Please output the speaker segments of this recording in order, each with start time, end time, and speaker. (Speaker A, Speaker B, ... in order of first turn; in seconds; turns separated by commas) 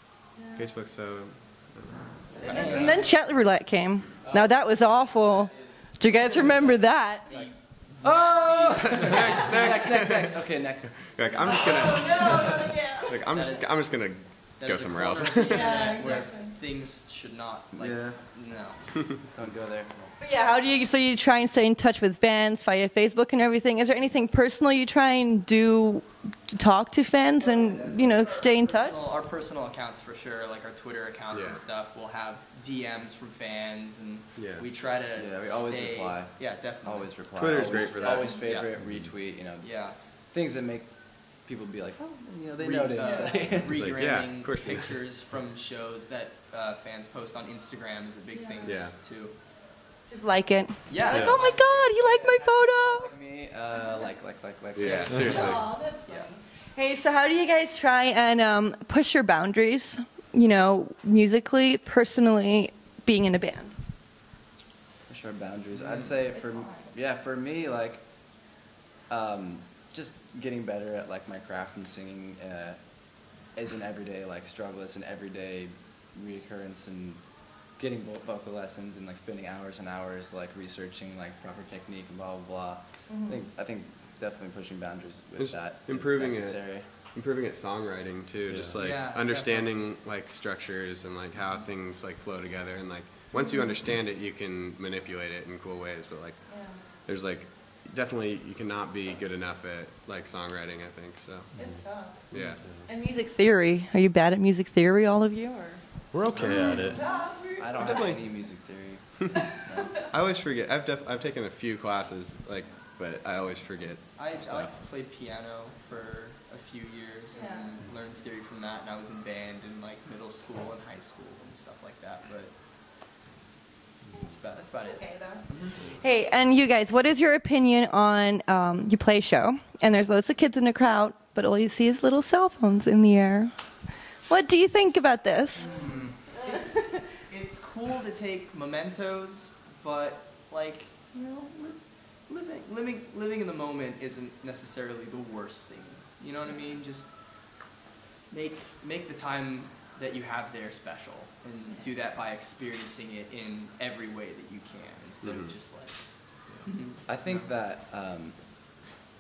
Speaker A: 0.6-2.8, Speaker B: 2.4-2.8, Speaker C: 2.4-3.1, Speaker D: 2.4-7.2, Speaker C: 4.2-10.2, Speaker B: 7.3-12.7, Speaker A: 9.0-10.3, Speaker A: 11.0-15.8, Speaker D: 11.4-13.2, Speaker C: 13.3-19.1, Speaker D: 15.4-16.5, Speaker B: 17.7-18.2, Speaker B: 19.3-20.1, Speaker D: 20.2-29.0, Speaker B: 27.4-28.1, Speaker C: 28.1-38.7, Speaker A: 31.3-31.6, Speaker A: 34.4-34.6, Speaker B: 35.1-43.8, Speaker A: 37.4-38.4, Speaker C: 39.6-40.0, Speaker C: 42.5-49.4, Speaker D: 43.0-43.4, Speaker A: 43.6-44.9, Speaker D: 48.3-48.8, Speaker A: 48.6-49.0, Speaker D: 50.1-53.1, Speaker C: 50.9-51.8, Speaker B: 51.0-55.5, Speaker E: 51.1-51.4, Speaker A: 54.8-55.6, Speaker D: 55.1-63.7, Speaker B: 65.1-68.0, Speaker C: 65.8-66.1, Speaker D: 66.3-66.9, Speaker B: 69.1-77.2, Speaker B: 77.8-86.9, Speaker D: 83.1-83.4, Speaker A: 85.4-101.5, Speaker E: 88.5-88.8, Speaker C: 88.8-89.8, Speaker D: 93.4-93.7, Speaker D: 96.5-96.8, Speaker E: 101.5-102.9, Speaker D: 101.6-102.2, Speaker A: 102.3-102.6, Speaker D: 102.9-105.8, Speaker E: 106.1-107.0, Speaker A: 106.3-106.8, Speaker D: 106.4-108.0, Speaker B: 107.5-110.1, Speaker A: 107.8-108.2, Speaker A: 110.1-114.7, Speaker C: 114.2-122.5, Speaker D: 117.3-117.7, Speaker C: 124.2-125.8, Speaker D: 124.7-133.5, Speaker D: 134.2-135.7, Speaker C: 135.6-147.7, Speaker B: 135.6-136.2, Speaker D: 136.4-136.8, Speaker C: 148.3-157.5, Speaker A: 155.2-155.5, Speaker B: 157.1-158.4